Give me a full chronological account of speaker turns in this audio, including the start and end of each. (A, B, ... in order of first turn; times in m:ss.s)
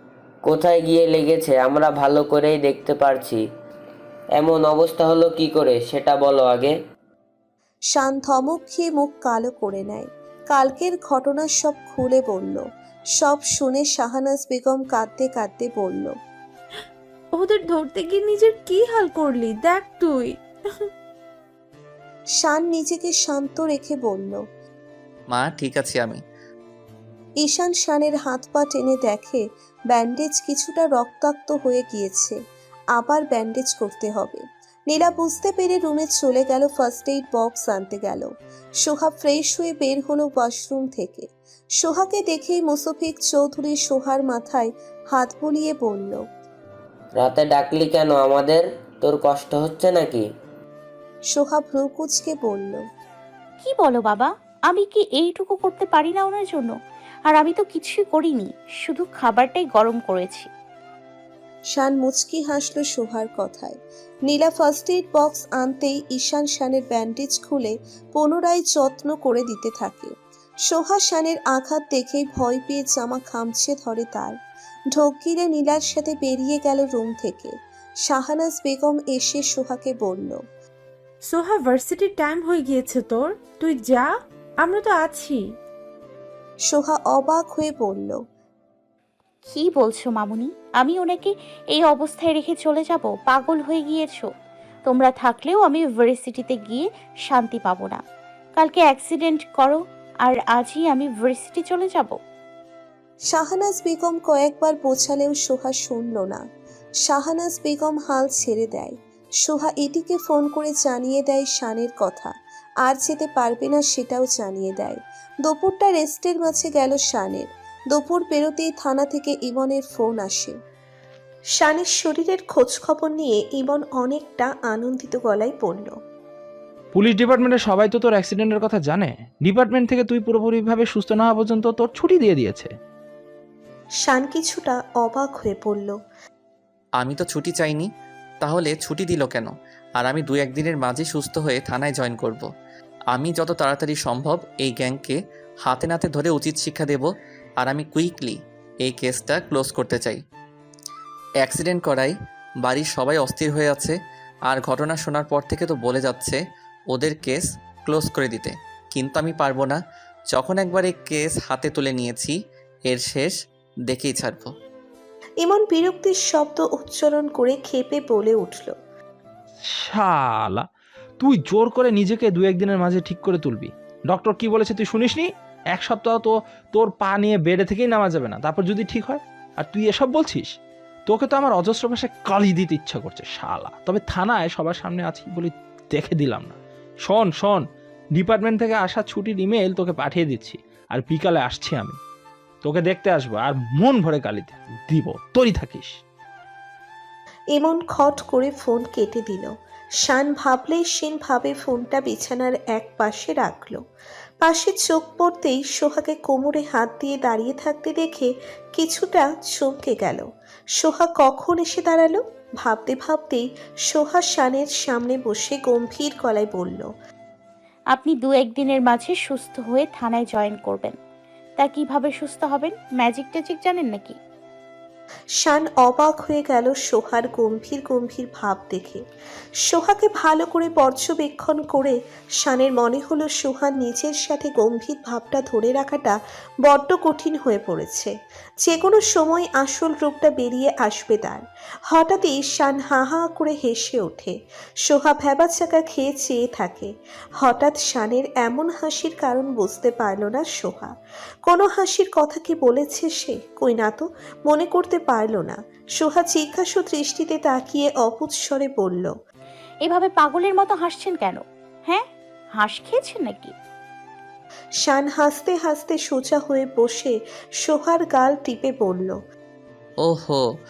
0:00.4-0:03.4 A
0:04.4-0:06.8 A
0:07.9-0:12.6 B
0:13.2-0:16.1 B
0:17.3-0:20.4 C
0:22.4-0:24.4 B
0:25.3-0:26.2 D
0:27.4-0:32.4 B
0:33.0-0:38.3 B
0:38.8-0:41.3 B
0:41.8-0:46.2 B
0:47.2-0:50.3 A
0:51.3-0:52.8 B
0:53.6-0:56.7 E
0:57.3-1:00.5 E
1:01.8-1:03.7 B
1:04.3-1:10.1 B
1:10.7-1:14.4 B
1:14.9-1:17.5 B
1:18.1-1:20.4 B
1:21.2-1:25.4 C
1:26.7-1:28.2 B
1:29.5-1:34.3 E
1:34.9-1:38.0 E
1:38.6-1:42.2 E
1:43.3-1:46.4 B
1:47.0-1:52.3 B
1:52.8-2:00.6 B
2:01.6-2:05.9 B
2:06.9-2:12.7 F
2:14.0-2:16.0 B
2:17.0-2:17.9 D
2:18.4-2:22.5 D
2:23.1-2:27.1 D
2:27.6-2:30.2 D
2:31.4-2:34.0 D
2:34.5-2:36.4 D
2:36.9-2:39.8 D
2:40.3-2:42.4 D
2:42.9-2:43.4 D
2:43.9-2:44.5 D
2:45.4-2:48.8 B
2:49.8-2:50.7 F
2:51.2-3:00.5 F
3:01.1-3:07.6 F
3:08.2-3:12.0 F
3:12.6-3:16.0 F
3:17.6-3:19.5 B
3:20.0-3:23.8 B
3:24.4-3:30.2 B
3:30.8-3:36.9 B
3:37.9-3:41.0 E
3:41.6-3:44.2 E
3:45.4-3:49.0 B
3:49.6-4:10.9 B
4:11.5-4:19.1 B
4:19.8-4:22.0 E
4:22.6-4:23.5 E
4:24.8-4:29.2 B
4:30.0-4:30.4 D